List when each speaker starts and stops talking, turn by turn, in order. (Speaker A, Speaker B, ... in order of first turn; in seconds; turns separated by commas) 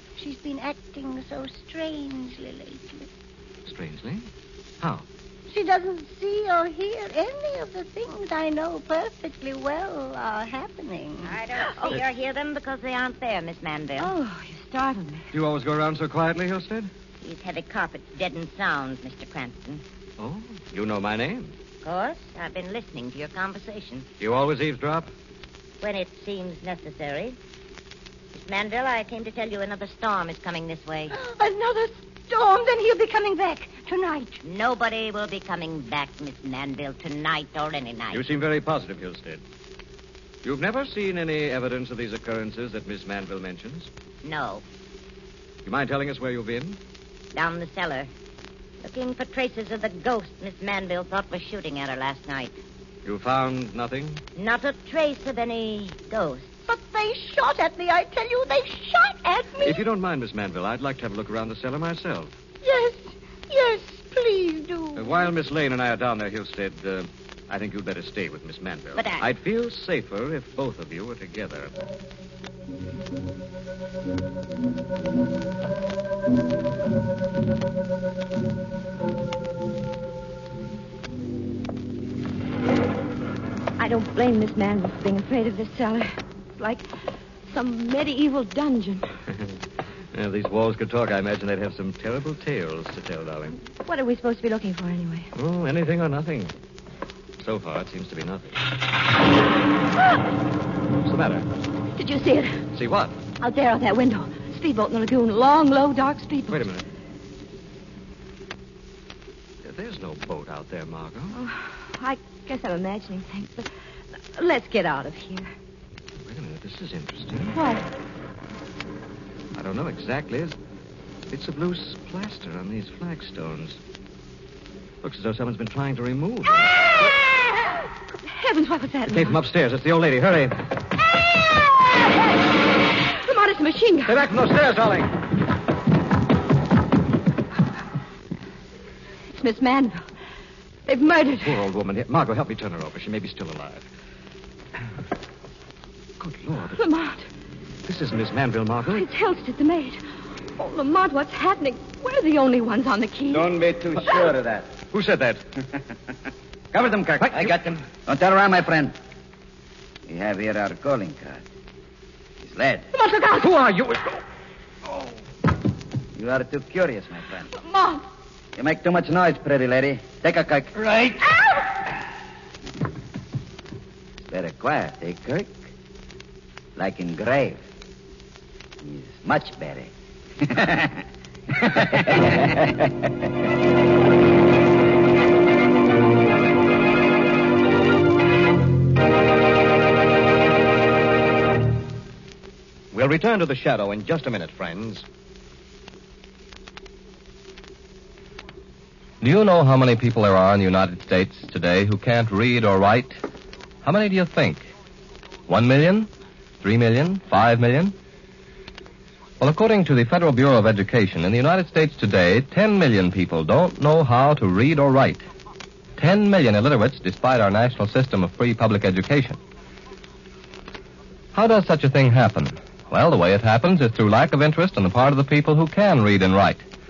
Speaker A: 0.2-3.1, Speaker B: 3.6-4.3, Speaker A: 5.5-11.3, Speaker C: 11.2-14.1, Speaker D: 14.0-15.2, Speaker B: 15.3-16.9, Speaker C: 17.2-19.8, Speaker B: 20.2-21.5, Speaker C: 21.8-24.1, Speaker B: 24.2-25.1, Speaker C: 25.8-27.4, Speaker C: 28.3-31.1, Speaker A: 31.1-34.4, Speaker C: 34.4-38.2, Speaker B: 38.1-39.4, Speaker B: 40.4-43.9, Speaker C: 44.2-44.6, Speaker B: 45.6-46.8, Speaker C: 47.3-48.1, Speaker C: 48.8-52.6, Speaker B: 53.0-54.2, Speaker C: 54.4-56.5, Speaker A: 56.7-59.8, Speaker B: 59.6-62.3, Speaker A: 62.6-65.3, Speaker B: 65.0-71.7, Speaker C: 69.0-69.3, Speaker D: 83.8-86.9, Speaker D: 87.5-89.1, Speaker B: 90.1-93.6, Speaker D: 93.8-95.3, Speaker B: 95.3-96.5, Speaker B: 97.4-98.6, Speaker B: 101.0-101.5, Speaker D: 102.0-102.6, Speaker B: 102.7-103.2, Speaker D: 103.4-106.7, Speaker B: 106.5-106.8, Speaker B: 109.6-111.3, Speaker D: 111.3-113.7, Speaker D: 114.3-115.5, Speaker B: 116.2-117.6, Speaker D: 117.5-117.8, Speaker B: 119.5-120.5, Speaker B: 121.3-123.8, Speaker B: 125.0-126.7, Speaker D: 128.2-129.4, Speaker B: 129.1-130.6, Speaker D: 133.2-134.2, Speaker B: 134.1-135.1, Speaker D: 139.3-140.0, Speaker D: 140.9-141.6, Speaker B: 141.4-143.9, Speaker B: 146.2-146.8, Speaker D: 146.8-147.2, Speaker B: 147.8-149.1, Speaker D: 148.9-150.0, Speaker D: 150.6-153.5, Speaker E: 153.3-154.7, Speaker B: 154.9-155.4, Speaker E: 156.7-158.9, Speaker E: 160.1-161.4, Speaker E: 162.4-162.9, Speaker D: 162.9-163.5, Speaker B: 163.6-164.0, Speaker E: 166.2-167.5, Speaker D: 167.5-168.0, Speaker E: 168.6-170.8, Speaker E: 174.2-175.6, Speaker E: 176.8-177.6, Speaker E: 178.8-181.0, Speaker E: 181.6-182.8, Speaker F: 192.9-195.0, Speaker G: 199.2-203.2, Speaker G: 203.8-204.7, Speaker G: 205.5-206.1, Speaker G: 206.6-207.9, Speaker G: 209.4-215.2, Speaker G: 216.0-219.4, Speaker G: 221.3-226.6